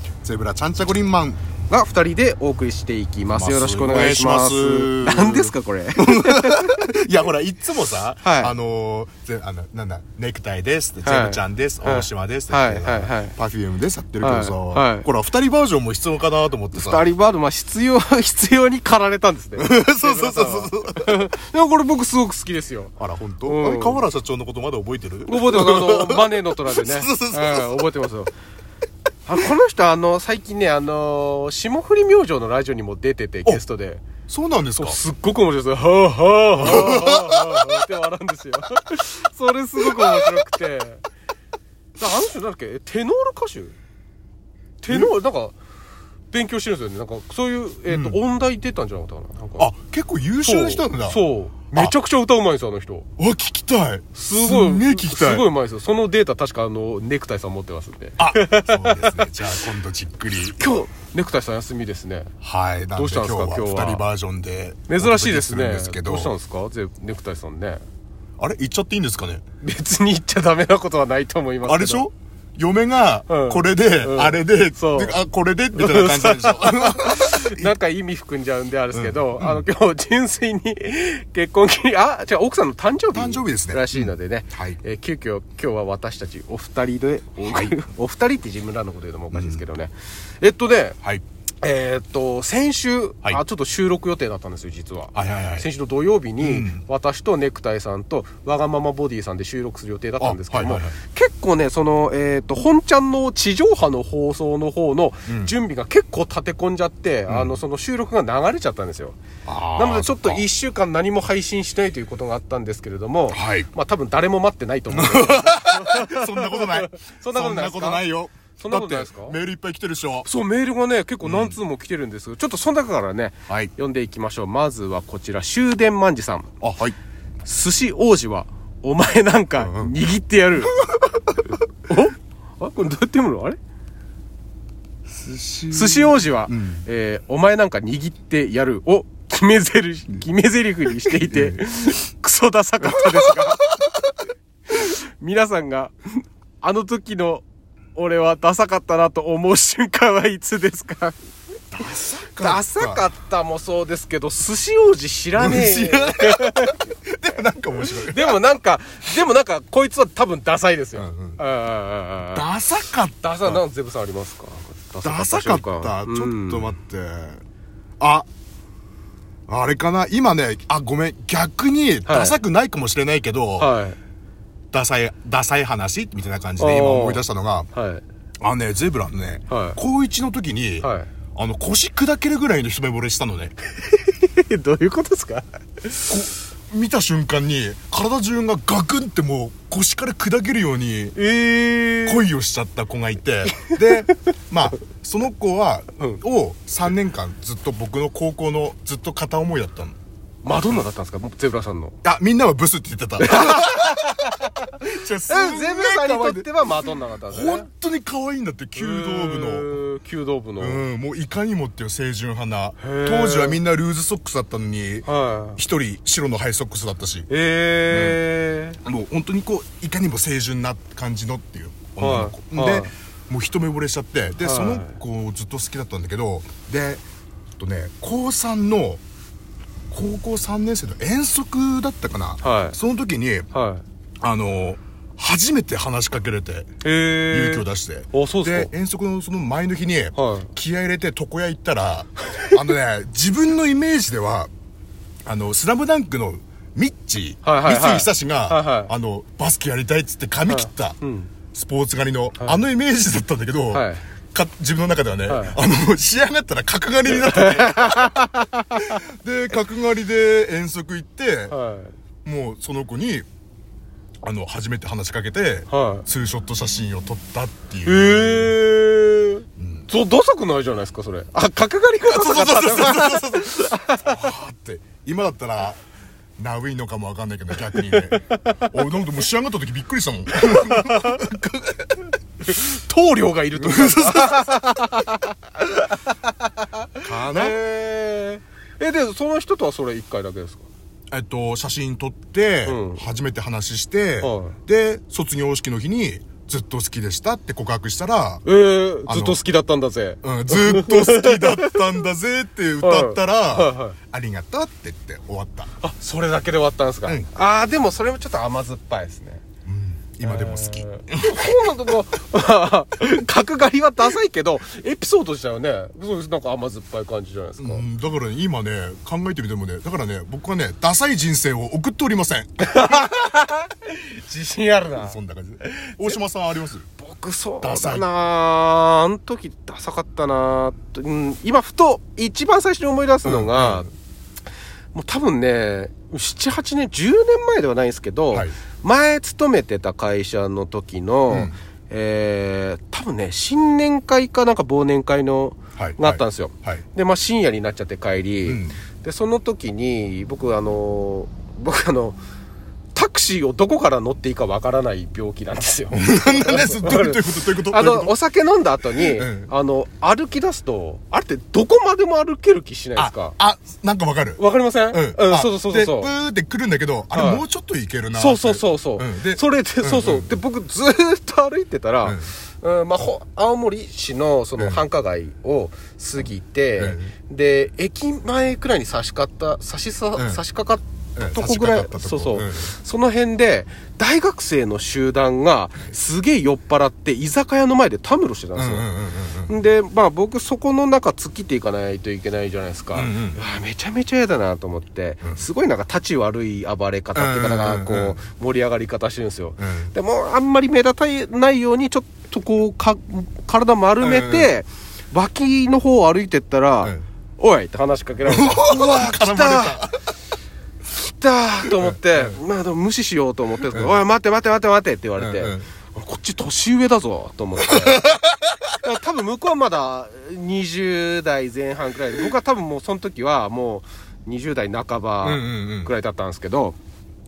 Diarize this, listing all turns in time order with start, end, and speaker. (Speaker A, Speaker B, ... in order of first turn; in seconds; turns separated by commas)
Speaker A: 0.2-1.4, Speaker B: 1.7-6.8, Speaker A: 3.3-17.0, Speaker B: 8.2-8.5, Speaker B: 11.1-13.3, Speaker B: 14.2-15.1, Speaker B: 16.7-22.9, Speaker A: 19.6-21.2, Speaker A: 23.0-27.8, Speaker B: 23.4-24.0, Speaker B: 25.3-28.3, Speaker B: 29.3-34.0, Speaker A: 34.3-35.0, Speaker B: 34.8-41.0, Speaker A: 36.6-37.8, Speaker A: 39.8-40.3, Speaker B: 42.0-43.8, Speaker B: 44.8-45.5, Speaker A: 44.9-45.1, Speaker B: 46.3-49.7, Speaker A: 47.9-48.2, Speaker A: 49.6-51.9, Speaker B: 50.4-53.1, Speaker A: 53.2-55.5, Speaker B: 54.1-59.3, Speaker A: 58.2-60.8, Speaker B: 60.6-62.3, Speaker A: 62.4-66.3, Speaker B: 63.0-64.0, Speaker B: 64.9-67.8, Speaker A: 68.4-69.4, Speaker B: 69.6-72.1, Speaker A: 71.7-77.7, Speaker B: 73.3-75.2, Speaker B: 75.8-91.0, Speaker A: 78.9-79.7, Speaker A: 83.1-84.8, Speaker A: 87.4-87.8, Speaker A: 89.3-89.6, Speaker B: 91.6-109.2, Speaker A: 95.1-95.7, Speaker A: 96.4-96.8, Speaker A: 100.2-101.0, Speaker A: 105.3-105.5, Speaker A: 107.3-107.6, Speaker A: 109.5-110.5, Speaker B: 109.8-118.0, Speaker A: 113.3-113.7, Speaker A: 114.9-120.3, Speaker B: 118.6-119.4, Speaker B: 120.3-126.5, Speaker A: 121.2-121.6, Speaker A: 126.6-127.0, Speaker B: 127.5-130.9, Speaker A: 129.6-130.0, Speaker B: 131.8-133.6, Speaker A: 135.1-136.8, Speaker B: 135.7-143.8, Speaker A: 141.1-141.7, Speaker A: 143.0-143.4, Speaker B: 144.7-145.9, Speaker B: 146.6-151.2, Speaker A: 151.7-153.1, Speaker B: 152.4-156.9, Speaker A: 155.4-158.4, Speaker B: 157.9-162.5, Speaker A: 161.0-161.4, Speaker A: 162.2-163.6, Speaker B: 163.2-166.8, Speaker A: 165.0-167.4, Speaker A: 168.0-168.3, Speaker A: 169.5-173.7, Speaker B: 172.1-172.4, Speaker B: 173.6-174.0, Speaker A: 174.7-177.7, Speaker B: 176.6-178.0, Speaker A: 178.4-183.5, Speaker B: 179.5-179.8, Speaker B: 180.8-181.1, Speaker B: 183.8-186.2, Speaker A: 186.1-191.2, Speaker B: 191.2-192.2, Speaker A: 192.0-200.0, Speaker B: 200.4-202.0, Speaker A: 202.0-209.8, Speaker B: 203.2-204.7, Speaker B: 205.3-207.7, Speaker B: 208.8-210.8, Speaker A: 210.6-217.3, Speaker B: 212.8-213.6, Speaker B: 215.1-215.6, Speaker B: 217.3-218.8, Speaker A: 217.9-218.2, Speaker A: 218.8-227.0, Speaker B: 222.0-222.9, Speaker B: 224.4-225.0, Speaker A: 227.6-229.0, Speaker A: 229.9-233.5, Speaker B: 232.4-232.8, Speaker B: 233.5-233.8, Speaker A: 234.2-236.7, Speaker B: 236.8-238.7, Speaker A: 237.3-244.5, Speaker B: 240.2-240.5, Speaker A: 245.2-251.0, Speaker B: 247.4-248.9, Speaker B: 250.5-251.3, Speaker A: 251.5-258.1, Speaker B: 253.7-254.0, Speaker B: 255.3-255.6, Speaker B: 257.1-259.0, Speaker A: 258.8-261.5, Speaker B: 261.5-261.9, Speaker A: 262.2-263.3, Speaker A: 264.2-268.6, Speaker B: 265.7-266.1, Speaker B: 267.9-274.2, Speaker A: 269.6-269.9, Speaker A: 272.1-275.8, Speaker A: 276.4-282.1, Speaker B: 277.7-278.7, Speaker B: 280.4-281.2, Speaker B: 282.4-290.7, Speaker A: 283.6-284.5, Speaker A: 287.1-287.6, Speaker A: 291.1-298.4, Speaker B: 292.7-293.0, Speaker B: 294.2-294.6, Speaker B: 298.4-301.9, Speaker A: 299.1-299.4, Speaker A: 300.2-305.7, Speaker B: 302.8-304.0, Speaker B: 305.8-309.4, Speaker A: 309.6-311.9, Speaker B: 310.2-317.8, Speaker A: 317.6-323.0, Speaker B: 322.6-325.2, Speaker A: 325.0-326.9, Speaker B: 325.8-326.2, Speaker B: 327.0-333.9, Speaker A: 327.6-328.1, Speaker A: 333.2-333.9, Speaker B: 334.9-352.2, Speaker A: 341.3-341.6, Speaker A: 345.8-346.8, Speaker A: 348.4-348.8, Speaker B: 352.9-363.4, Speaker A: 355.9-358.1, Speaker A: 358.9-359.5, Speaker A: 363.0-370.4, Speaker B: 364.4-366.1, Speaker B: 367.1-367.4, Speaker B: 368.1-388.9, Speaker A: 372.0-372.3, Speaker A: 374.6-374.8, Speaker A: 376.8-377.1, Speaker A: 380.2-380.4, Speaker A: 381.2-382.7, Speaker A: 388.6-389.6, Speaker B: 389.5-409.8, Speaker A: 392.9-393.4, Speaker A: 397.1-398.2, Speaker A: 399.6-399.9, Speaker A: 404.0-404.5, Speaker A: 408.2-410.0, Speaker B: 410.9-418.1, Speaker A: 411.7-412.4, Speaker A: 413.7-414.0, Speaker A: 415.2-415.7, Speaker A: 417.6-418.5, Speaker B: 418.8-426.8, Speaker A: 425.2-425.9